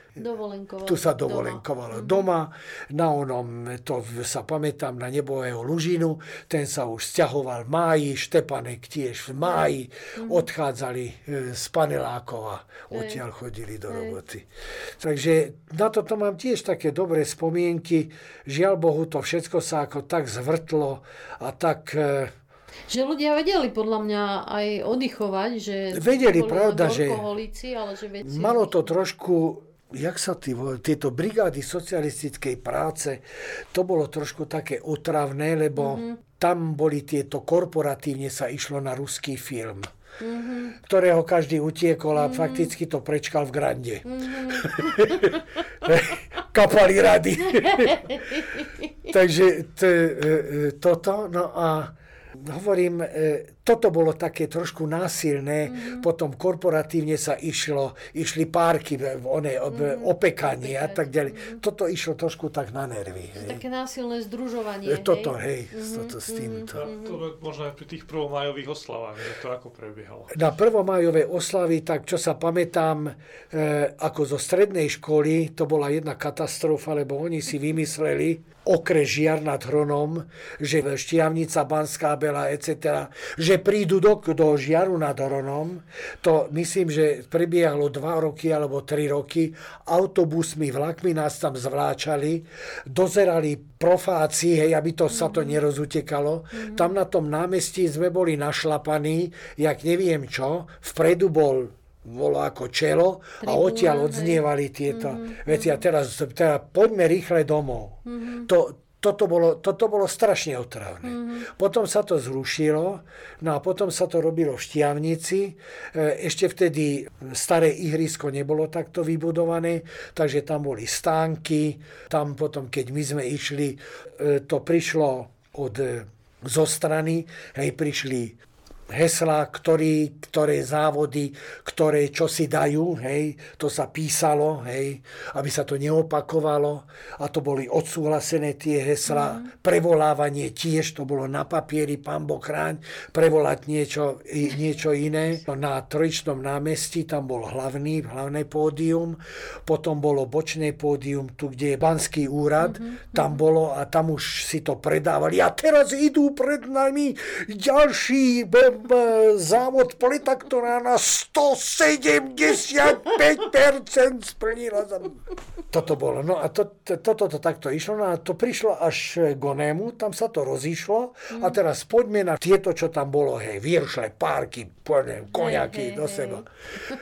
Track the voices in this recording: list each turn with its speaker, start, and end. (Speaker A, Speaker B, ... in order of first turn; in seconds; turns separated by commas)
Speaker A: 0.2-2.3, Speaker B: 0.8-14.5, Speaker A: 9.4-10.5, Speaker A: 12.9-13.2, Speaker A: 13.9-14.2, Speaker B: 15.0-22.3, Speaker A: 22.9-28.9, Speaker B: 25.9-27.3, Speaker B: 28.2-39.9, Speaker A: 35.8-36.2, Speaker A: 40.2-40.8, Speaker B: 40.8-48.0, Speaker A: 42.2-42.7, Speaker A: 44.0-45.4, Speaker A: 47.6-48.9, Speaker B: 49.1-63.6, Speaker A: 55.7-56.1, Speaker A: 59.7-61.6, Speaker A: 63.4-67.2, Speaker B: 64.8-66.8, Speaker C: 66.8-70.3, Speaker B: 70.3-128.4, Speaker A: 95.1-95.6, Speaker A: 96.5-96.9, Speaker A: 103.4-105.8, Speaker A: 108.1-108.5, Speaker A: 111.0-111.5, Speaker B: 128.9-165.2, Speaker A: 139.1-139.5, Speaker A: 152.6-153.3, Speaker B: 165.7-176.4, Speaker A: 171.3-171.6, Speaker A: 175.3-176.5